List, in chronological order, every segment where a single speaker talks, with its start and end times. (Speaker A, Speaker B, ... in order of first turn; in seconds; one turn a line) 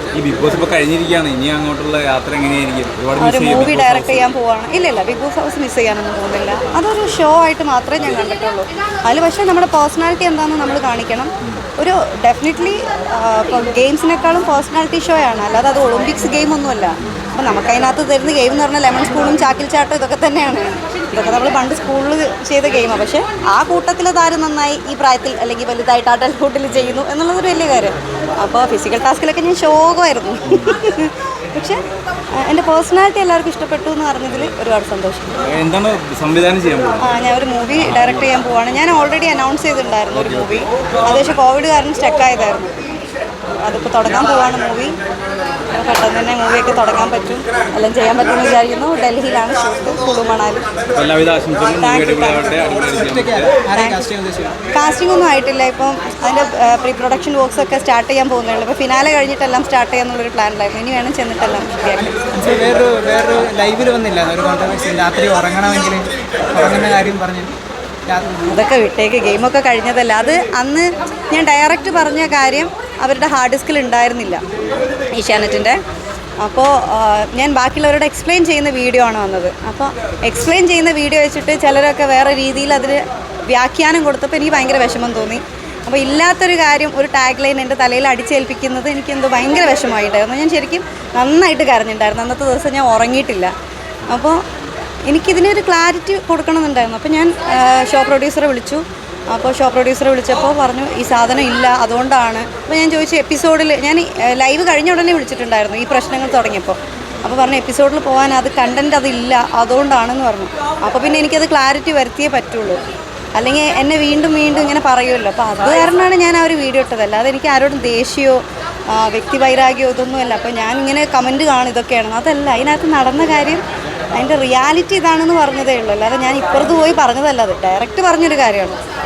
Speaker A: 0.1-4.2
Speaker B: 3.2-31.8
Speaker A: 26.7-27.0
Speaker A: 30.4-30.8
Speaker B: 32.4-35.4
Speaker A: 34.3-34.5
Speaker A: 35.4-37.0
Speaker B: 37.0-42.7
Speaker A: 37.8-38.3
Speaker A: 40.1-40.5
Speaker B: 43.6-44.9
Speaker B: 45.7-50.6
Speaker A: 50.9-53.6
Speaker B: 51.7-52.5
Speaker C: 53.0-54.5
Speaker B: 53.7-54.1
Speaker B: 54.7-62.2
Speaker C: 61.9-67.5
Speaker C: 68.1-68.4
Speaker B: 68.5-74.4
Speaker B: 75.1-75.8
Speaker B: 76.4-93.5
Speaker B: 94.1-94.4
Speaker B: 95.1-112.8
Speaker B: 113.3-123.6
Speaker B: 124.1-128.8